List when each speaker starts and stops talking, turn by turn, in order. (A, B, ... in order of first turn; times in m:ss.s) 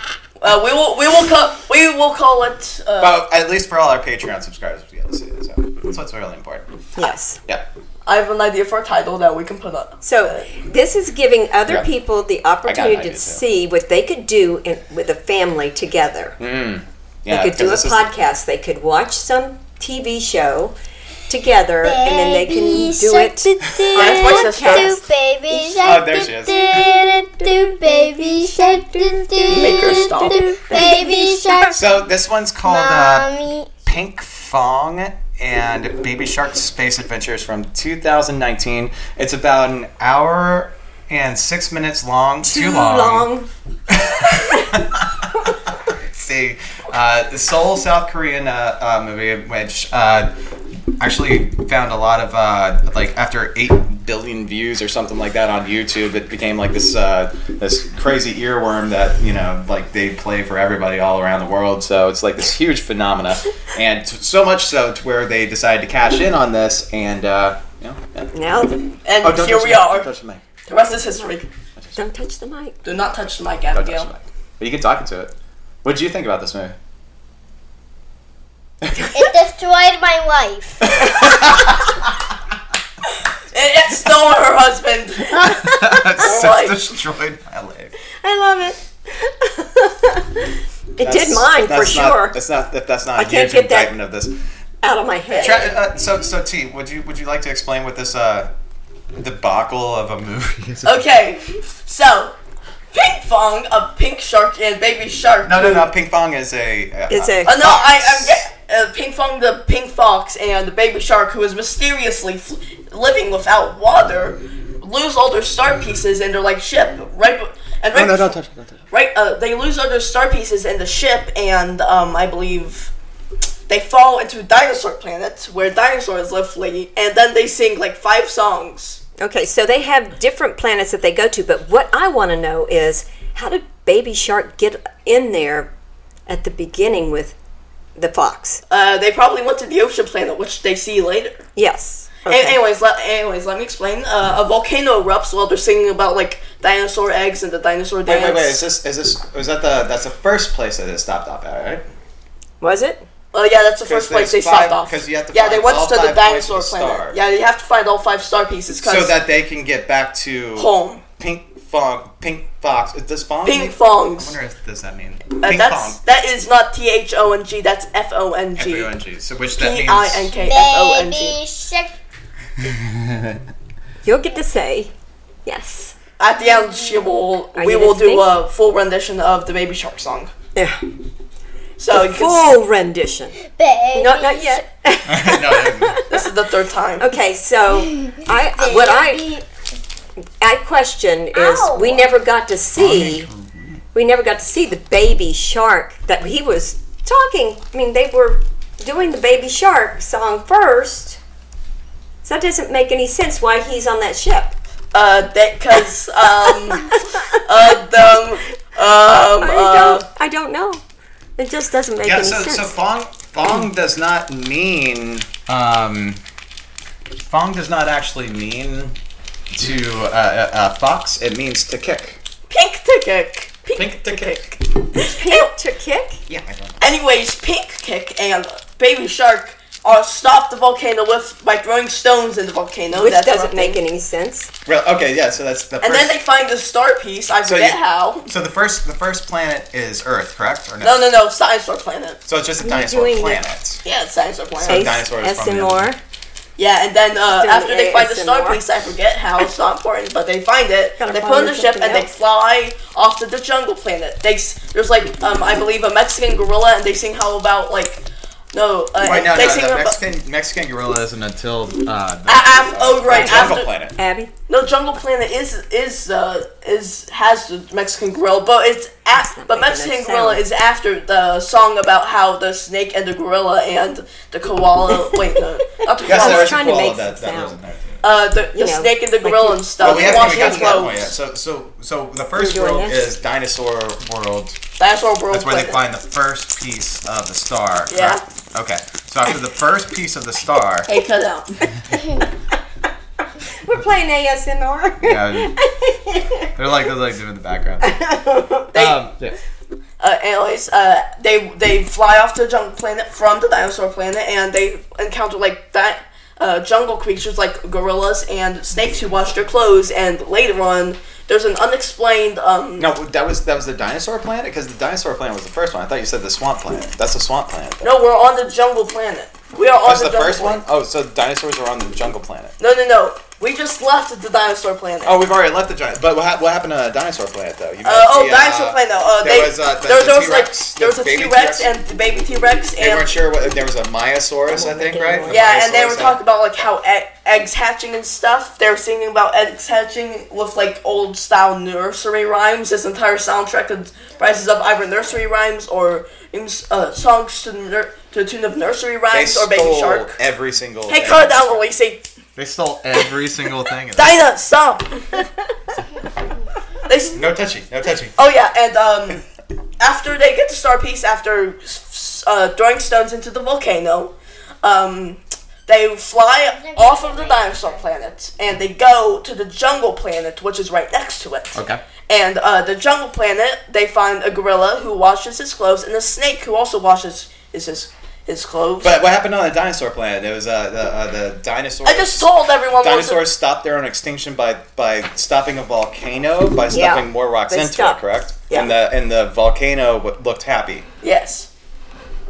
0:00.4-0:03.2 A
0:03.0-0:06.7 B
0:07.0-0:07.4 C
0:08.1-0:10.5 A
0:10.0-0:16.4 C
0:12.7-0:13.4 B
0:16.4-0:18.1 B
0:17.3-0:20.8 C
0:21.3-0:25.0 C
0:21.8-0:31.8 D
0:23.9-0:25.0 A
0:25.6-0:26.9 B
0:28.1-0:31.8 C
0:29.5-0:30.9 A
0:31.7-0:33.3 B
0:32.6-0:33.7 D
0:33.8-0:43.3 B
0:42.4-0:43.5 C
0:43.9-0:50.3 B
0:51.0-1:08.3 B
1:08.3-1:08.8 C
1:09.1-1:10.1 A
1:09.2-1:10.4 B
1:10.7-1:11.5 A
1:12.0-1:12.8 C
1:12.8-1:14.1 A
1:13.7-1:15.3 B
1:15.8-1:16.8 B
1:19.1-1:21.0 D
1:20.8-1:22.1 B
1:23.5-1:26.8 A
1:25.4-1:28.0 B
1:28.2-1:32.4 C
1:31.0-1:34.4 B
1:33.2-1:33.9 C
1:34.8-1:35.7 C
1:35.3-1:35.6 A
1:35.4-1:38.5 B
1:39.2-1:41.1 B
1:40.8-1:42.4 A
1:42.9-1:45.9 A
1:45.4-1:48.5 B
1:47.1-1:47.6 C
1:47.4-1:58.3 A
1:57.9-1:58.8 B
1:58.9-2:02.9 A
2:03.7-2:09.0 A
2:09.2-2:15.7 C
2:16.3-2:17.4 C
2:18.0-2:18.6 C
2:18.7-2:21.4 A
2:21.6-2:22.5 C
2:22.2-2:28.6 A
2:28.1-2:31.8 B
2:32.6-2:33.1 C
2:33.3-2:39.1 A
2:33.9-2:37.2 B
2:38.8-2:46.0 B
2:40.6-2:41.0 A
2:43.4-2:44.4 A
2:45.4-2:48.9 A
2:48.6-2:50.4 B
2:49.6-2:51.4 A
2:50.4-2:51.9 D
2:52.6-2:53.4 B
2:54.0-2:54.9 C
2:55.5-2:56.0 C
2:56.2-3:00.3 A
2:57.6-2:58.3 C
3:00.6-3:00.8 C
3:01.8-3:02.4 A
3:01.9-3:03.4 C
3:03.5-3:04.6 D
3:03.9-3:06.3 C
3:05.1-3:06.0 B
3:06.1-3:07.1 A
3:07.0-3:09.3 C
3:08.6-3:09.4 D
3:10.4-3:13.3 C
3:11.3-3:12.1 D
3:12.8-3:13.8 B
3:13.9-3:21.2 C
3:22.2-3:24.6 C
3:24.9-3:30.0 A
3:26.7-3:27.4 C
3:29.4-3:30.8 C
3:31.4-3:32.8 C
3:32.0-3:36.2 B
3:37.2-3:39.0 B
3:39.5-3:42.2 B
3:42.5-3:45.5 A
3:43.8-3:44.4 B
3:45.0-3:46.2 C
3:46.3-3:46.9 B
3:46.8-3:53.8 A
3:52.9-3:54.5 C
3:54.7-3:56.2 B
3:55.8-3:58.3 A
3:57.4-4:01.0 B
4:00.8-4:02.2 A
4:02.3-4:03.8 B
4:02.6-4:03.4 C
4:03.8-4:05.0 A
4:04.6-4:05.9 B
4:04.7-4:06.0 C
4:06.6-4:20.0 A
4:07.3-4:08.6 C
4:11.0-4:12.1 C
4:19.0-4:24.0 B
4:22.3-4:23.7 A
4:23.1-4:24.3 C
4:24.5-4:36.6 A
4:29.2-4:30.4 C
4:35.1-4:37.6 C
4:36.0-4:38.0 B
4:38.0-4:41.1 A
4:38.6-4:40.9 C
4:39.8-4:44.6 B
4:42.4-4:43.1 C
4:44.8-4:45.8 A
4:45.3-4:50.9 B
4:47.9-4:48.2 A
4:50.9-4:51.6 A
4:53.6-4:56.5 C
4:55.0-4:55.5 B
4:56.6-4:57.9 B
4:57.8-4:58.7 C
4:58.7-4:59.0 A
4:58.7-4:59.4 B
5:00.0-5:12.9 A
5:12.8-5:18.0 B
5:17.8-5:20.6 A
5:19.8-5:22.6 B
5:22.6-5:25.2 A
5:25.0-5:31.7 B
5:27.8-5:33.2 A
5:32.8-5:36.2 B
5:34.5-5:35.4 C
5:35.3-5:50.2 A
5:49.1-5:51.6 B
5:50.9-5:52.0 A
5:52.4-5:54.2 B
5:54.0-5:55.3 A
5:56.9-5:57.2 A
5:57.1-5:58.2 B
5:58.2-5:59.2 A
5:59.8-6:11.6 A
6:06.6-6:07.8 D
6:11.5-6:11.8 B
6:12.1-6:19.0 A
6:18.8-6:30.9 B
6:21.8-6:23.2 A
6:26.7-6:28.7 C
6:31.0-6:31.5 A